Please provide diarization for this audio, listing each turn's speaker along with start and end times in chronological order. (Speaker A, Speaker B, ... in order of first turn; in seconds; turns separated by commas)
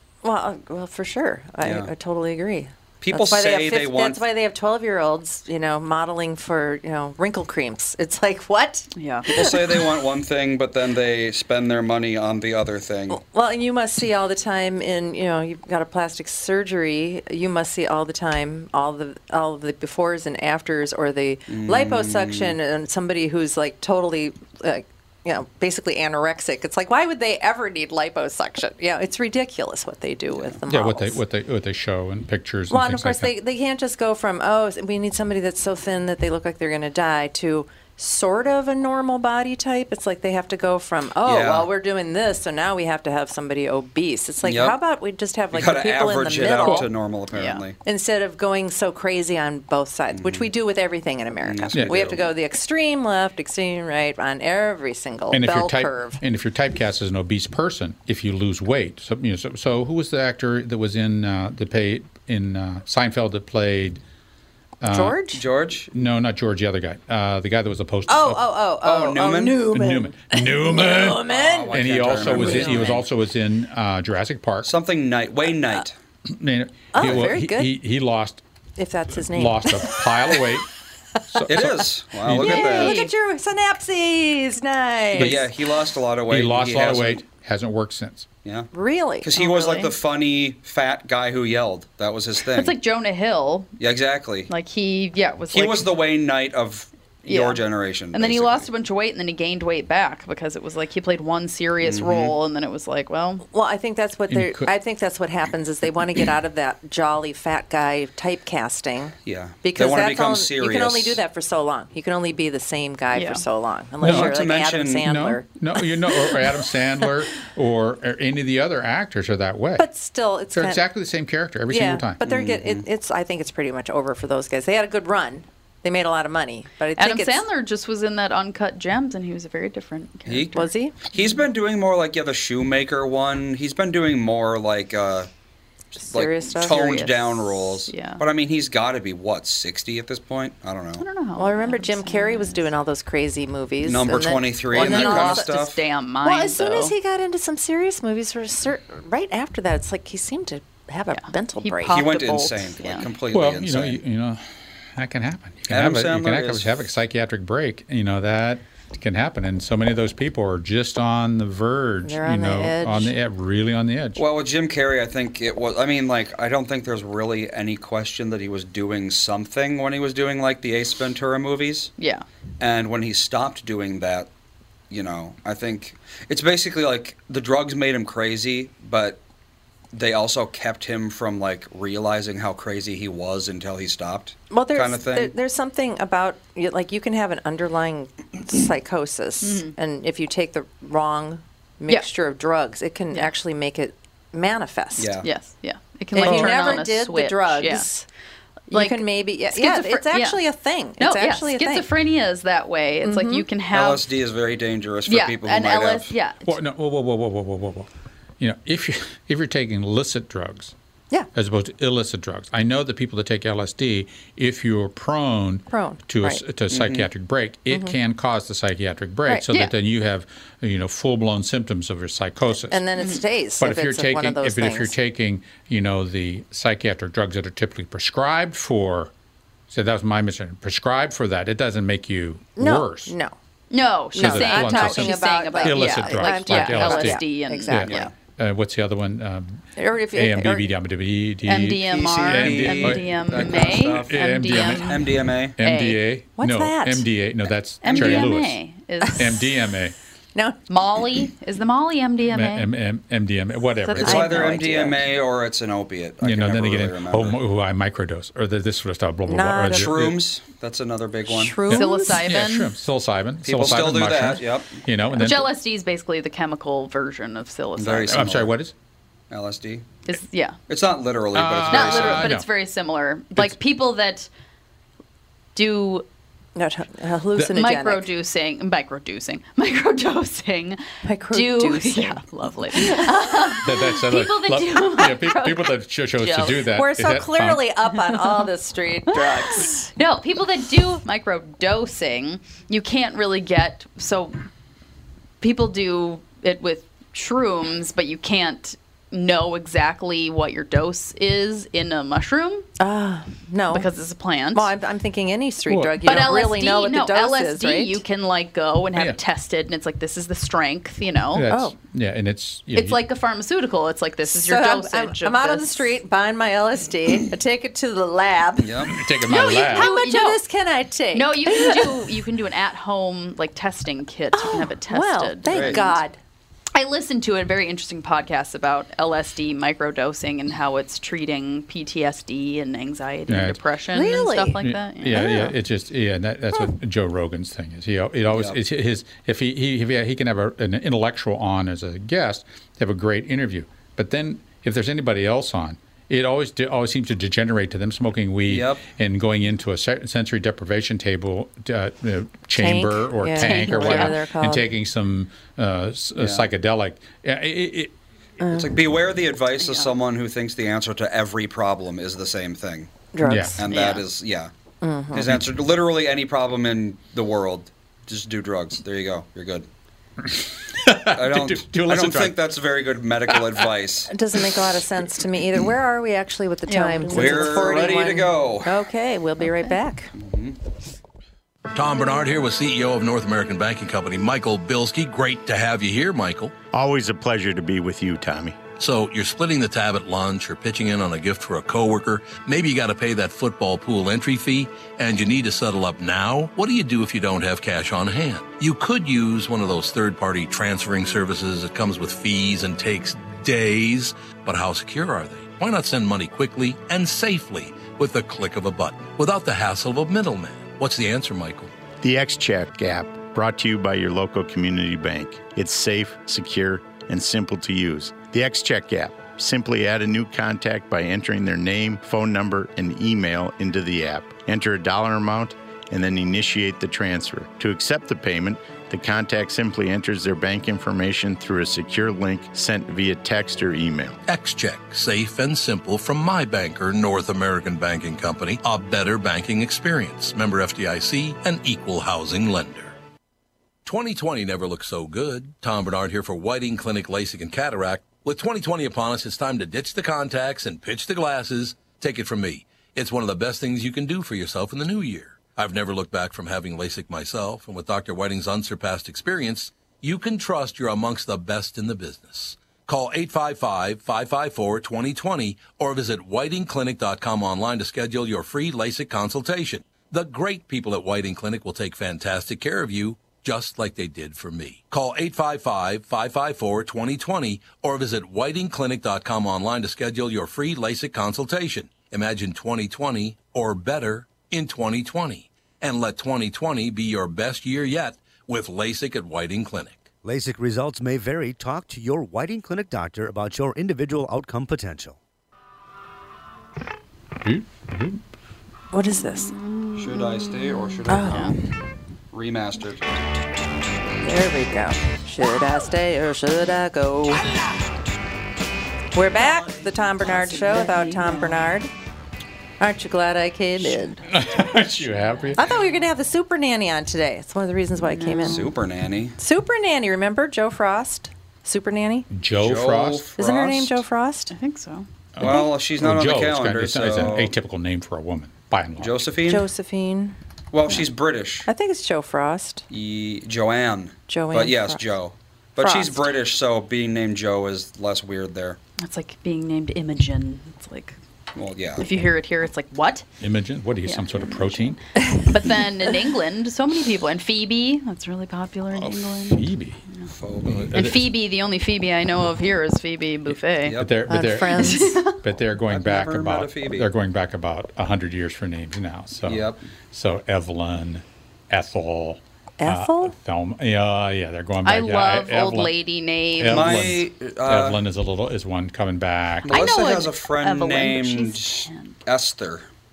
Speaker A: 0.2-9.9, Speaker B: 1.6-1.9, Speaker B: 3.0-4.2, Speaker C: 9.0-9.3, Speaker B: 9.3-13.2, Speaker A: 13.1-31.2, Speaker B: 21.5-22.6, Speaker D: 30.7-33.3, Speaker A: 32.7-46.9, Speaker B: 41.2-41.7, Speaker B: 44.4-44.8, Speaker B: 45.5-47.8, Speaker D: 46.6-46.9, Speaker C: 47.3-47.6, Speaker A: 47.8-56.2, Speaker B: 50.1-50.5, Speaker B: 51.4-52.3, Speaker D: 55.3-64.0, Speaker D: 64.8-65.2, Speaker A: 64.9-65.4, Speaker B: 65.3-65.9, Speaker D: 65.9-68.4, Speaker A: 68.1-73.0, Speaker B: 68.8-69.7, Speaker D: 69.7-74.7, Speaker B: 71.2-73.1, Speaker B: 74.7-76.0, Speaker D: 76.3-78.4, Speaker A: 76.9-77.7, Speaker A: 78.8-80.4, Speaker D: 79.2-80.7, Speaker D: 81.3-82.7, Speaker B: 81.5-83.0, Speaker A: 82.4-85.4, Speaker C: 82.4-83.1, Speaker D: 85.2-85.5, Speaker B: 85.2-87.2, Speaker D: 86.3-88.3, Speaker A: 88.7-89.4, Speaker B: 89.2-92.8, Speaker C: 89.4-89.9, Speaker C: 92.5-93.7, Speaker B: 93.8-94.5, Speaker C: 94.5-95.9, Speaker B: 95.5-98.7, Speaker C: 97.3-103.5, Speaker B: 101.8-102.4, Speaker A: 103.5-115.5, Speaker D: 104.3-104.7, Speaker B: 109.2-111.2, Speaker C: 113.1-113.4, Speaker D: 114.0-114.4, Speaker B: 114.0-115.1, Speaker D: 115.0-119.8, Speaker A: 116.1-116.5, Speaker A: 119.8-120.8, Speaker D: 120.5-122.2, Speaker A: 121.7-127.4, Speaker B: 122.2-122.8, Speaker C: 127.0-131.4, Speaker B: 130.3-135.3, Speaker A: 130.6-131.0, Speaker A: 136.0-137.1, Speaker B: 136.1-141.0, Speaker C: 136.5-138.2, Speaker C: 141.0-142.6, Speaker A: 141.4-145.5, Speaker B: 143.8-145.8, Speaker C: 144.7-146.9, Speaker A: 146.2-152.1, Speaker C: 151.1-153.1, Speaker B: 151.9-154.0, Speaker D: 153.3-154.4, Speaker D: 154.9-164.2, Speaker B: 155.7-156.9, Speaker A: 162.0-163.2, Speaker B: 164.2-171.9, Speaker C: 172.0-172.2, Speaker B: 172.6-174.3, Speaker B: 174.9-179.2, Speaker B: 179.9-185.3, Speaker A: 184.5-195.2, Speaker C: 189.4-189.8, Speaker B: 195.0-195.3, Speaker C: 195.2-197.9, Speaker A: 196.2-198.1, Speaker D: 196.3-196.6, Speaker C: 198.7-200.4, Speaker A: 198.7-201.9, Speaker C: 201.0-204.0, Speaker A: 203.0-203.5, Speaker B: 203.7-206.1, Speaker C: 205.1-206.5, Speaker D: 206.4-210.7, Speaker D: 211.3-222.8, Speaker A: 215.7-216.4, Speaker B: 216.7-217.1, Speaker A: 217.7-218.0, Speaker A: 222.7-224.9, Speaker C: 223.0-223.2, Speaker D: 223.6-229.1, Speaker D: 229.7-233.1, Speaker A: 232.6-233.3, Speaker C: 233.7-238.1, Speaker A: 234.2-238.1, Speaker D: 234.2-248.6, Speaker A: 239.8-240.7, Speaker C: 241.5-245.0, Speaker B: 241.8-245.6, Speaker C: 245.6-246.0, Speaker A: 246.4-247.1, Speaker C: 247.8-249.3, Speaker B: 247.9-248.2, Speaker D: 249.2-250.0, Speaker C: 250.7-252.7, Speaker D: 252.3-254.5, Speaker C: 253.8-254.5, Speaker B: 254.0-257.4, Speaker A: 254.0-255.0, Speaker D: 256.2-260.2, Speaker A: 259.3-259.9, Speaker B: 259.7-261.7, Speaker C: 261.3-262.7, Speaker A: 261.6-262.2, Speaker D: 261.7-265.5, Speaker B: 263.4-264.8, Speaker C: 265.1-268.3, Speaker B: 267.8-268.6, Speaker D: 268.1-268.7, Speaker B: 269.3-269.9, Speaker C: 270.1-270.6, Speaker B: 270.7-272.3, Speaker D: 271.3-272.5, Speaker C: 271.7-274.3, Speaker C: 275.6-276.1, Speaker A: 276.6-278.1, Speaker C: 277.5-286.6, Speaker A: 281.0-282.2, Speaker A: 282.7-283.5, Speaker D: 283.6-287.7, Speaker A: 286.7-289.9, Speaker C: 288.2-288.5, Speaker C: 289.1-294.4, Speaker C: 295.4-302.7, Speaker A: 302.8-303.9, Speaker C: 303.7-304.7, Speaker A: 304.5-308.0, Speaker D: 305.7-306.2, Speaker C: 306.0-311.5, Speaker D: 311.3-313.0, Speaker A: 311.5-311.8, Speaker C: 312.7-315.8, Speaker A: 314.3-322.1, Speaker B: 318.6-318.9, Speaker D: 318.9-319.9, Speaker C: 319.3-320.4, Speaker C: 321.1-326.0, Speaker A: 324.3-326.2, Speaker B: 325.5-325.9, Speaker C: 326.8-335.3, Speaker D: 333.3-333.6, Speaker A: 333.9-334.6, Speaker D: 334.6-357.9, Speaker A: 335.1-335.5, Speaker B: 338.3-338.6, Speaker B: 348.5-348.9, Speaker A: 352.6-354.7, Speaker C: 353.4-354.2, Speaker B: 356.2-356.5, Speaker A: 358.4-358.8, Speaker B: 358.5-362.9, Speaker C: 359.6-359.9, Speaker A: 363.1-363.6, Speaker D: 363.2-363.6, Speaker B: 363.6-364.5, Speaker C: 363.7-364.0, Speaker A: 364.8-365.3, Speaker B: 365.1-369.7, Speaker D: 370.4-372.4, Speaker B: 371.1-374.1, Speaker D: 373.3-373.7, Speaker A: 374.1-380.1, Speaker C: 376.7-377.9, Speaker B: 377.1-378.8, Speaker C: 379.4-379.7, Speaker B: 380.2-380.6, Speaker E: 381.7-386.5, Speaker F: 386.7-388.6, Speaker E: 388.8-411.7, Speaker F: 412.0-434.2, Speaker E: 434.3-442.9, Speaker E: 443.9-490.1, Speaker G: 490.2-495.2, Speaker D: 497.4-498.2, Speaker A: 498.9-499.5, Speaker C: 499.1-501.6, Speaker B: 500.0-501.5, Speaker A: 501.1-501.6, Speaker B: 502.3-503.0, Speaker A: 504.2-507.5, Speaker A: 509.1-511.9, Speaker C: 509.6-511.7, Speaker A: 512.8-514.2, Speaker D: 514.3-515.6, Speaker A: 515.6-518.7, Speaker C: 518.0-518.7, Speaker B: 518.4-519.4, Speaker A: 519.4-522.3, Speaker D: 522.3-523.3, Speaker B: 522.6-524.0, Speaker A: 523.4-524.5, Speaker C: 524.5-525.1, Speaker D: 525.4-529.2, Speaker B: 525.4-527.6, Speaker B: 529.0-529.7, Speaker A: 529.5-530.4, Speaker B: 530.7-531.7, Speaker A: 531.7-532.9, Speaker B: 532.9-538.8, Speaker A: 534.3-535.0, Speaker A: 535.8-536.2, Speaker C: 539.0-541.2, Speaker B: 541.5-542.0, Speaker C: 542.0-543.3, Speaker D: 543.4-545.0, Speaker C: 544.0-550.3, Speaker D: 548.9-550.0, Speaker B: 550.3-551.0, Speaker D: 550.6-551.3, Speaker C: 550.9-554.0, Speaker B: 553.8-554.2, Speaker D: 554.0-565.9, Speaker A: 554.3-555.3, Speaker C: 554.6-555.4, Speaker B: 555.9-557.1, Speaker B: 559.5-559.8, Speaker A: 562.8-563.3, Speaker C: 564.9-567.1, Speaker D: 566.6-569.7, Speaker B: 566.7-568.0, Speaker B: 569.6-572.9, Speaker C: 569.7-572.2